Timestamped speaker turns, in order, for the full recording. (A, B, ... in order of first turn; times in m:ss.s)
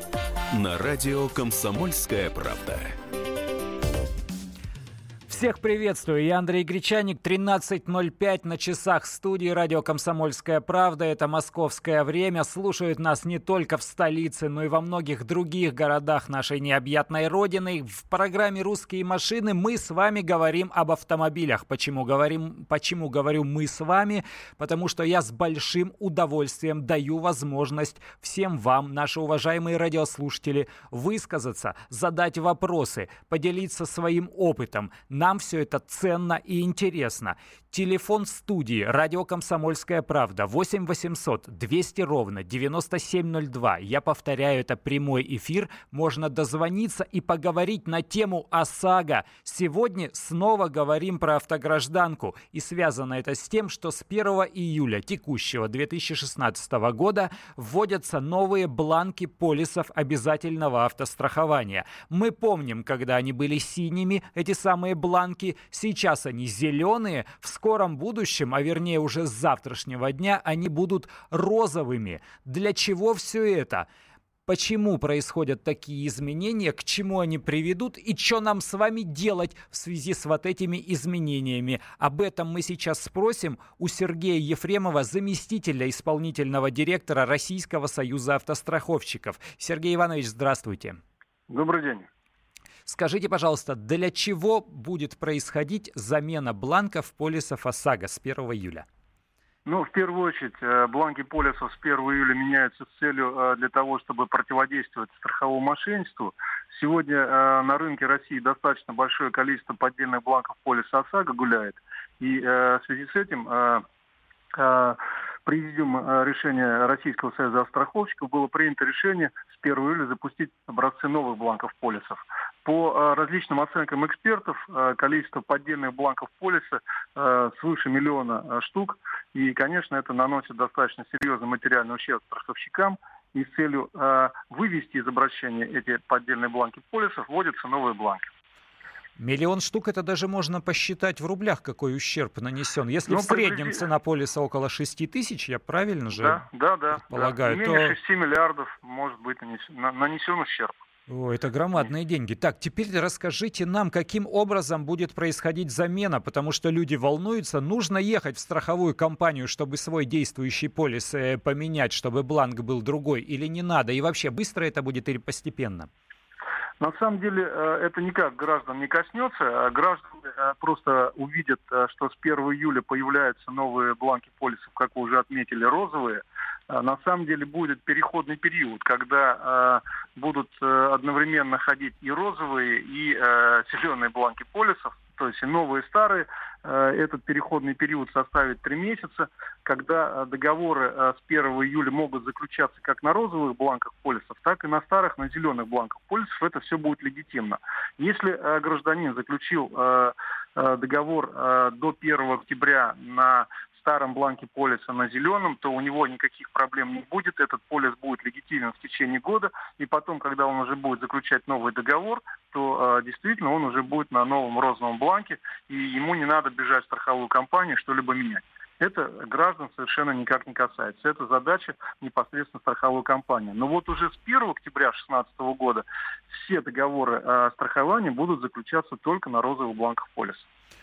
0:00.5-0:03.0 A
0:05.3-1:13.9 B
1:14.5-1:31.0 B
1:31.5-1:32.1 C
1:32.9-1:38.8 B
1:39.7-1:53.8 C
1:54.6-2:18.3 C
2:19.2-2:26.4 B
2:23.1-2:23.8 C
2:26.2-2:30.8 C
2:27.1-2:28.0 B
2:31.1-2:45.9 B
2:46.8-3:50.4 C